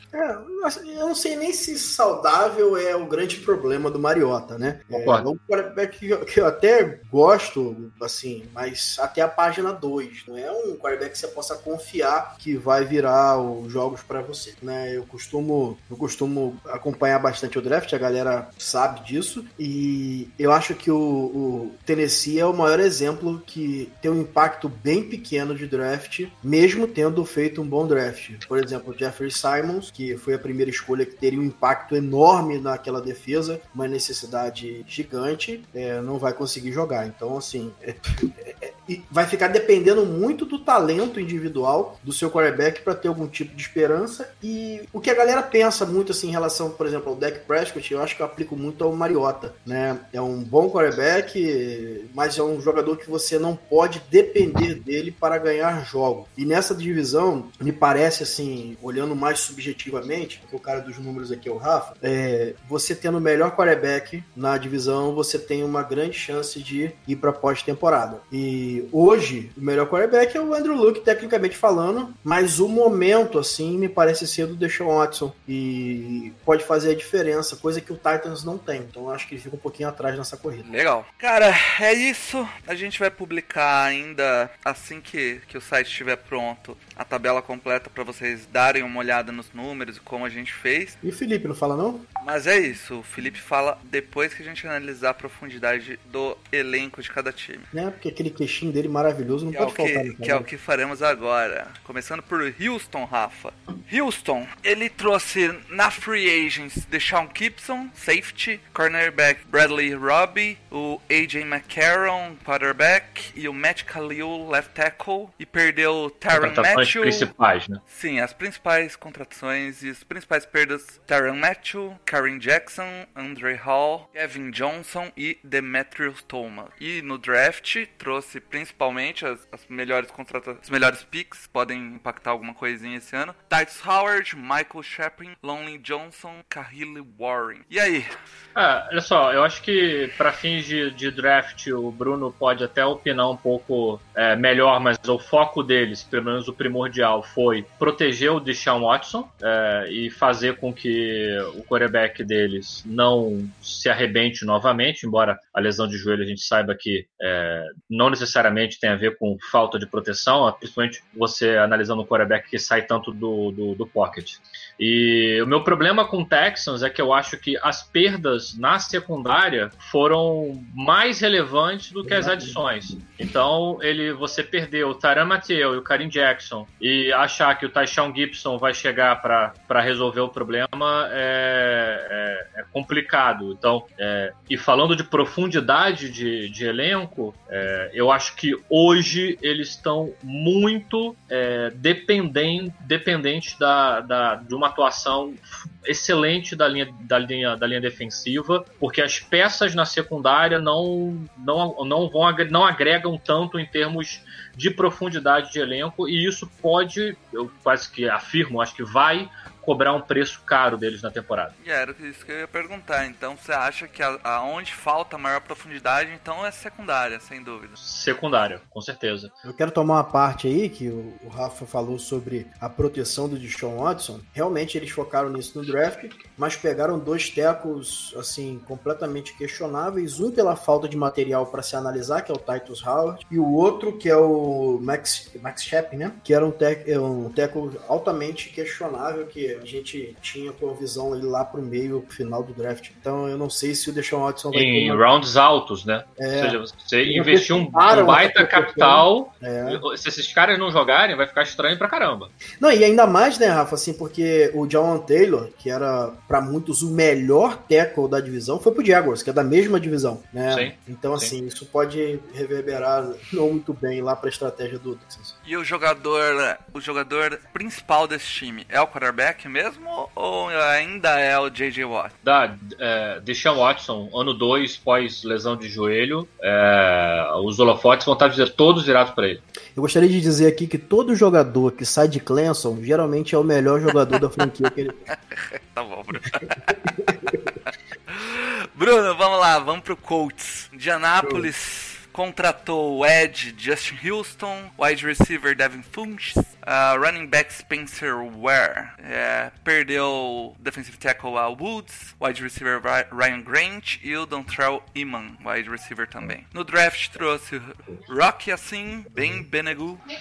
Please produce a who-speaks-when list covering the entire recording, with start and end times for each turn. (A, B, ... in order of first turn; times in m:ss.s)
0:00.1-1:20.7 A
0:04.9-0:05.3 B
1:20.6-1:31.0 C
1:31.0-1:32.1 A
1:32.2-1:37.7 C
1:37.7-1:40.5 A
1:39.5-1:57.3 C
1:56.3-1:57.8 B
1:57.9-2:18.2 C
2:18.6-3:31.6 B
2:52.0-2:52.6 A
3:31.6-3:37.8 C
3:37.8-3:39.3 B
3:39.4-4:05.0 A
4:04.5-4:12.3 B
4:06.2-4:09.8 A
4:12.6-4:25.4 A
4:20.5-4:21.3 B
4:25.4-4:32.1 C
4:32.2-4:39.4 B
4:39.8-4:45.0 A
4:45.1-4:46.6 C
4:46.8-4:47.4 A
4:48.1-5:10.0 C
4:51.2-4:51.5 A
5:09.1-5:09.5 A